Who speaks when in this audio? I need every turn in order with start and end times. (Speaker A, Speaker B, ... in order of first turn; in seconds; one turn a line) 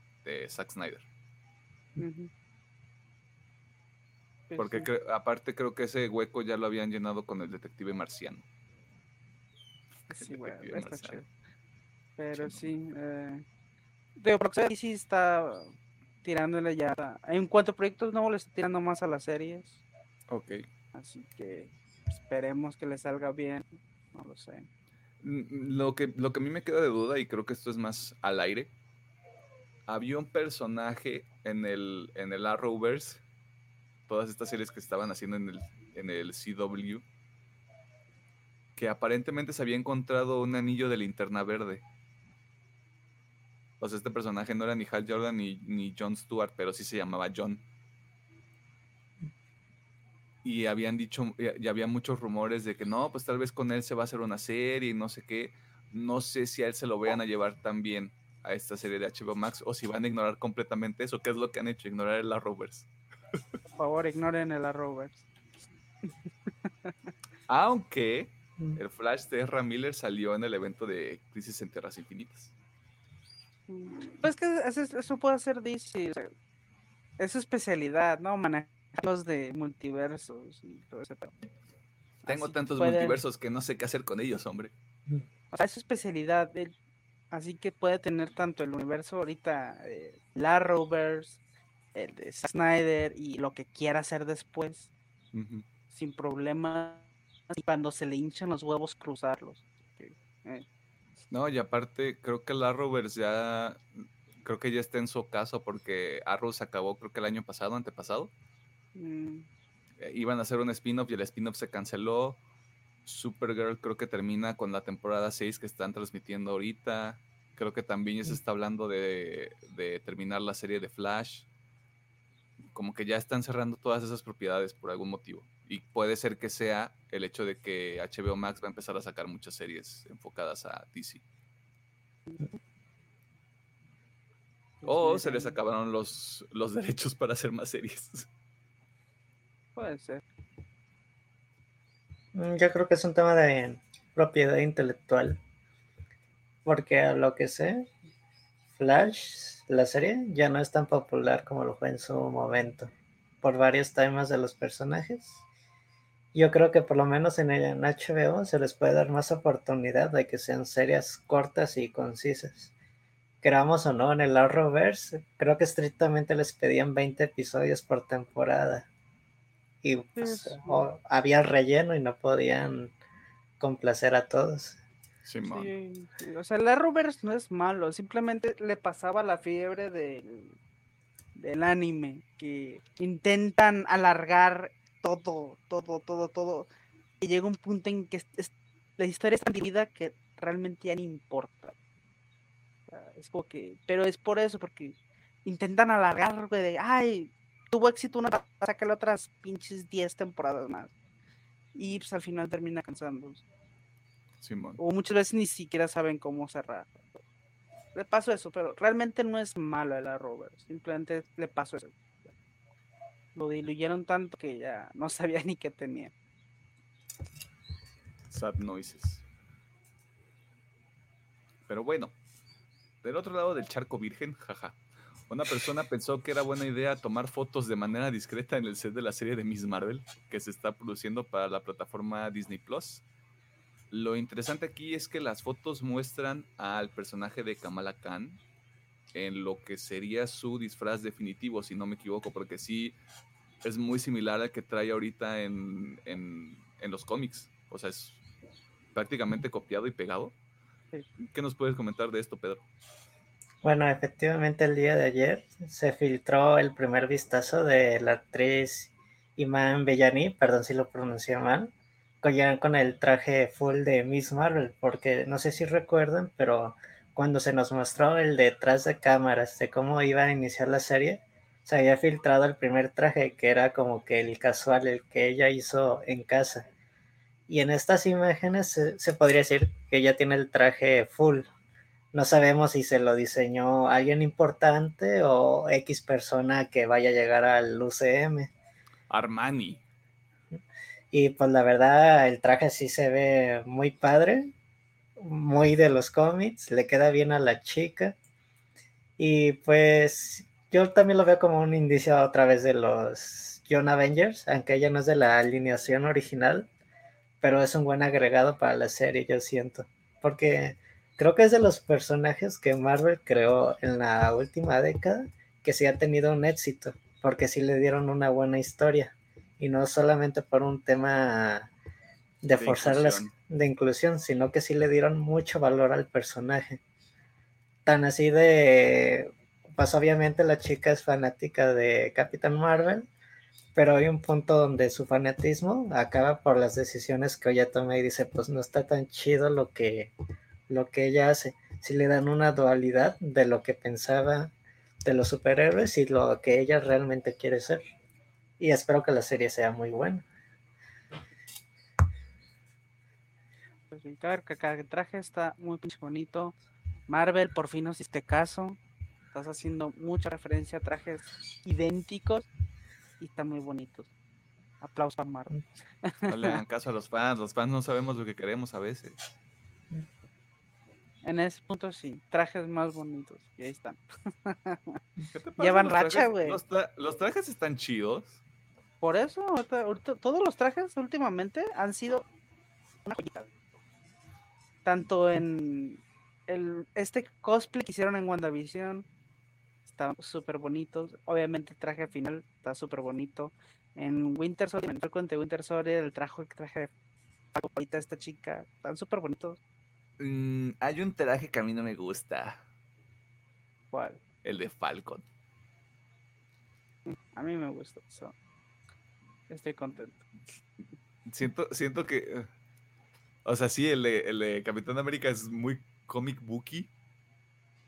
Speaker A: 0.2-1.1
Speaker B: 2.0-2.3
Speaker B: 4.5-4.9
Speaker A: 4.6-8.4
Speaker B: 10.1-11.3
Speaker A: 10.1-11.2
Speaker B: 12.2-13.4
Speaker A: 12.3-12.6
Speaker B: 14.2-15.7
Speaker B: 16.2-19.8
Speaker A: 20.3-20.6
Speaker B: 20.9-24.7
Speaker A: 25.2-28.7
Speaker A: 29.9-33.2
Speaker A: 34.1-37.0
Speaker A: 38.8-41.8
Speaker A: 43.8-47.6
Speaker A: 50.4-62.9
Speaker B: 63.8-65.2
Speaker B: 66.0-66.9
Speaker A: 67.5-72.5
Speaker B: 73.7-76.3
Speaker B: 77.2-81.3
Speaker B: 82.2-83.2
Speaker A: 82.3-84.7
Speaker B: 85.5-86.7
Speaker B: 87.3-91.4
Speaker B: 91.9-94.9
Speaker A: 95.3-95.6
Speaker B: 95.9-100.6
Speaker A: 101.3-103.8
Speaker A: 104.4-108.3
Speaker B: 108.9-109.5
Speaker A: 110.0-112.4
Speaker A: 113.0-121.5
Speaker A: 122.7-131.2
Speaker B: 132.3-132.6
Speaker B: 134.8-135.6
Speaker A: 134.8-138.3
Speaker B: 139.8-140.2
Speaker C: 142.3-145.4
Speaker C: 146.6-147.8
Speaker C: 148.8-155.4
Speaker C: 156.3-162.7
Speaker C: 163.4-168.9
Speaker C: 169.8-172.9
Speaker B: 170.2-170.9
Speaker C: 173.6-174.8
Speaker A: 175.2-175.7
Speaker B: 175.5-180.5
Speaker B: 181.3-186.7
Speaker B: 187.2-191.7
Speaker B: 192.9-200.9
Speaker B: 201.7-203.4
Speaker A: 204.4-204.8
Speaker B: 204.8-207.2
Speaker B: 207.9-211.9
Speaker B: 213.3-216.1
Speaker A: 218.3-219.2
Speaker A: 221.7-222.1
Speaker A: 223.0-224.8
Speaker A: 225.3-233.0
Speaker A: 233.9-238.4
Speaker A: 239.1-242.9
Speaker A: 243.6-248.2
Speaker A: 248.9-250.3
Speaker A: 251.2-252.6
Speaker C: 253.6-276.7
Speaker C: 277.5-281.5
Speaker C: 282.1-288.5
Speaker A: 289.1-289.8
Speaker C: 291.1-294.5
Speaker C: 295.2-298.1
Speaker C: 299.2-306.7
Speaker C: 307.4-321.7
Speaker C: 322.4-326.8
Speaker A: 322.5-323.3
Speaker C: 327.9-333.1
Speaker C: 333.7-340.1
Speaker C: 340.7-344.5
Speaker C: 345.0-347.8
Speaker C: 348.6-350.2
Speaker B: 353.9-356.5
Speaker B: 357.1-358.8
Speaker B: 359.3-362.5
Speaker B: 363.2-364.1
Speaker B: 364.8-366.6
Speaker A: 366.3-369.2
Speaker B: 371.2-375.0
Speaker A: 375.3-378.4
Speaker B: 375.6-376.6
Speaker B: 379.0-382.3
Speaker B: 383.0-383.5
Speaker B: 384.8-389.1
Speaker B: 389.9-396.9
Speaker B: 397.5-399.6
Speaker A: 400.2-402.6
Speaker B: 403.9-404.2
Speaker A: 404.4-405.2
Speaker B: 407.1-408.3
Speaker B: 409.5-410.2
Speaker A: 411.3-412.5
Speaker A: 413.4-416.9